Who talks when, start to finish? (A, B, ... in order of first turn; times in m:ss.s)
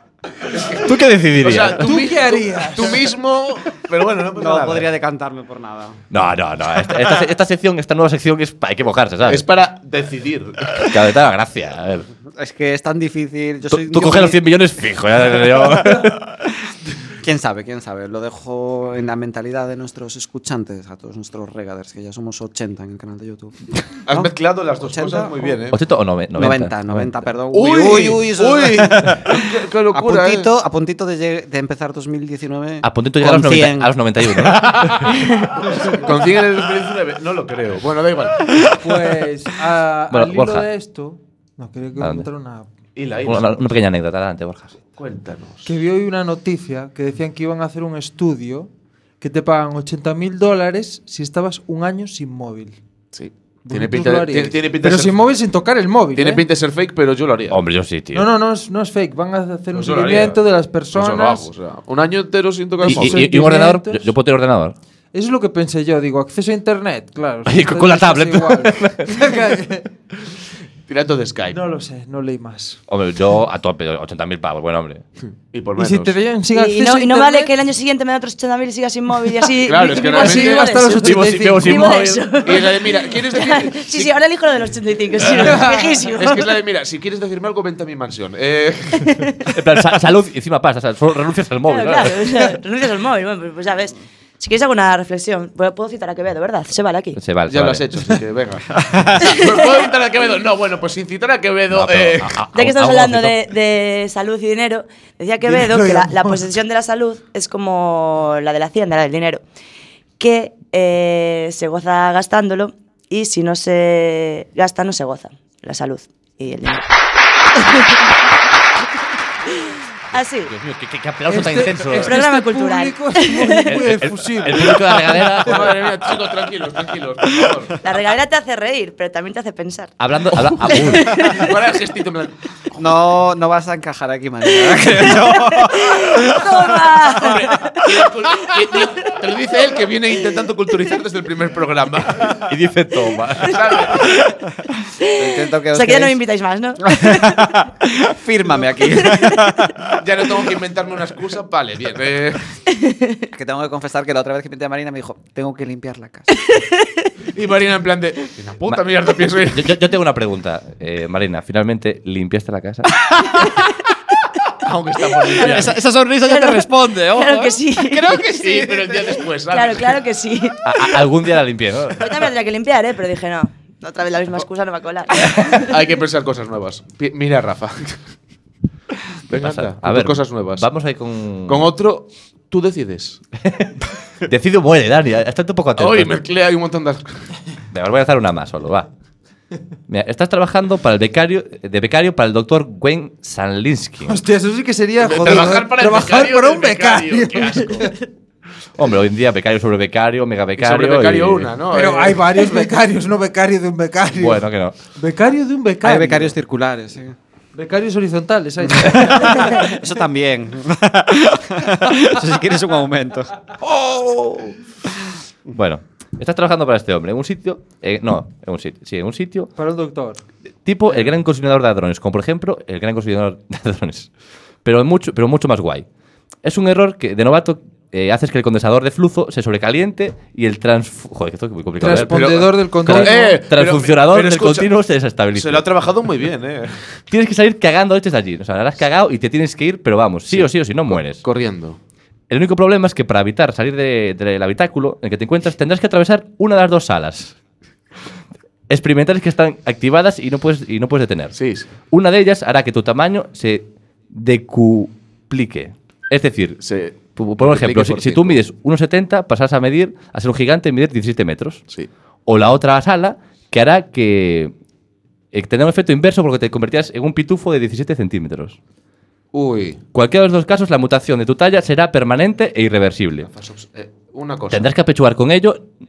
0:00.5-0:04.9 A
0:00.8-0:01.9 B
0:01.8-0:03.1 C
0:04.4-0:06.0 D
0:06.1-0:09.4 B
0:09.2-0:10.9 A
0:10.8-0:12.1 B
0:12.3-0:14.4 D
0:13.7-0:16.3 B
0:17.2-0:25.6 D
0:24.1-0:25.8 A
0:25.7-0:27.1 B
0:26.3-0:33.9 D
0:27.5-0:30.5 A
0:32.8-0:35.2 B
0:34.6-0:38.7 A
0:38.8-0:42.7 C
0:40.1-0:40.7 B
0:42.0-0:42.3 B
0:43.0-0:43.5 A
0:43.2-0:44.7 B
0:45.0-0:45.7 A
0:45.6-0:48.7 C
0:49.2-0:52.8 C
0:53.1-0:55.2 A
0:53.6-0:56.4 C
0:56.1-0:57.6 A
0:57.5-0:58.3 B
0:58.1-1:01.5 C
0:59.7-1:00.4 A
1:00.9-1:03.2 A
1:02.8-1:04.1 C
1:02.8-1:04.7 B
1:05.1-1:09.9 C
1:07.4-1:09.3 B
1:10.9-1:11.6 A
1:11.5-1:12.8 C
1:12.9-1:15.0 B
1:15.5-1:16.2 A
1:15.7-1:17.5 C
1:16.5-1:26.5 E
1:19.6-1:24.1 A
1:19.8-1:22.0 C
1:21.0-1:22.2 B
1:25.2-1:25.6 A
1:25.4-1:26.0 C
1:26.2-1:29.3 A
1:29.0-1:29.5 E
1:29.5-1:32.2 B
1:31.7-1:37.2 E
1:37.2-1:38.1 B
1:37.5-1:42.3 A
1:38.8-1:39.2 D
1:41.7-1:43.3 B
1:42.5-1:49.4 E
1:45.4-1:46.4 C
1:50.2-1:56.8 E
1:57.6-1:58.0 E
2:00.1-2:00.5 E
2:00.5-2:02.2 B
2:01.3-2:05.7 C
2:02.0-2:03.7 E
2:03.6-2:05.9 B
2:05.4-2:07.8 A
2:07.8-2:09.9 E
2:10.0-2:11.3 B
2:10.6-2:11.5 E
2:11.2-2:12.3 A
2:12.8-2:16.9 D
2:14.6-2:17.8 E
2:17.1-2:22.4 A
2:22.4-2:24.1 B
2:23.4-2:24.2 A
2:25.0-2:27.5 E
2:25.2-2:26.2 D
2:26.8-2:30.0 D
2:30.0-2:32.5 A
2:32.7-2:33.3 E
2:33.3-2:36.3 D
2:36.4-2:36.9 E
2:37.3-2:39.7 A
2:38.6-2:42.9 B
2:43.0-2:43.6 D
2:44.6-2:45.8 A
2:45.4-2:49.2 D
2:45.4-2:45.7 E
2:46.2-2:48.2 E
2:48.3-2:50.0 A
2:49.5-2:50.6 E
2:50.6-2:52.1 B
2:52.0-2:55.6 E
2:55.5-2:58.0 A
2:59.3-3:00.6 A
2:59.3-3:01.7 B
3:01.5-3:03.2 A
3:03.4-3:03.7 B
3:04.2-3:06.2 B
3:05.8-3:07.2 A
3:07.7-3:08.9 B
3:09.9-3:14.2 B
3:14.0-3:18.0 C
3:15.0-3:17.9 A
3:18.8-3:21.5 B
3:20.6-3:22.6 A
3:21.7-3:24.4 C
3:24.2-3:24.7 B
3:25.0-3:26.3 C
3:25.8-3:27.2 D
3:27.5-3:29.8 C
3:28.8-3:34.6 D
3:35.5-3:39.5 B
3:39.6-3:40.2 C
3:40.6-3:44.1 B
3:44.6-3:45.8 B
3:46.4-3:55.7 B
3:51.8-3:53.4 C
3:51.8-3:54.7 A
3:55.3-3:56.9 A
3:57.1-4:01.2 B
4:00.3-4:01.8 A
4:02.3-4:07.4 B
4:08.7-4:11.4 B
4:11.3-4:11.7 A
4:11.9-4:21.6 B
4:16.6-4:18.4 A
4:22.3-4:24.5 B
4:25.3-4:28.6 B
4:29.3-4:29.8 A
4:29.9-4:33.3 B
4:33.2-4:34.7 A
4:34.5-4:35.6 B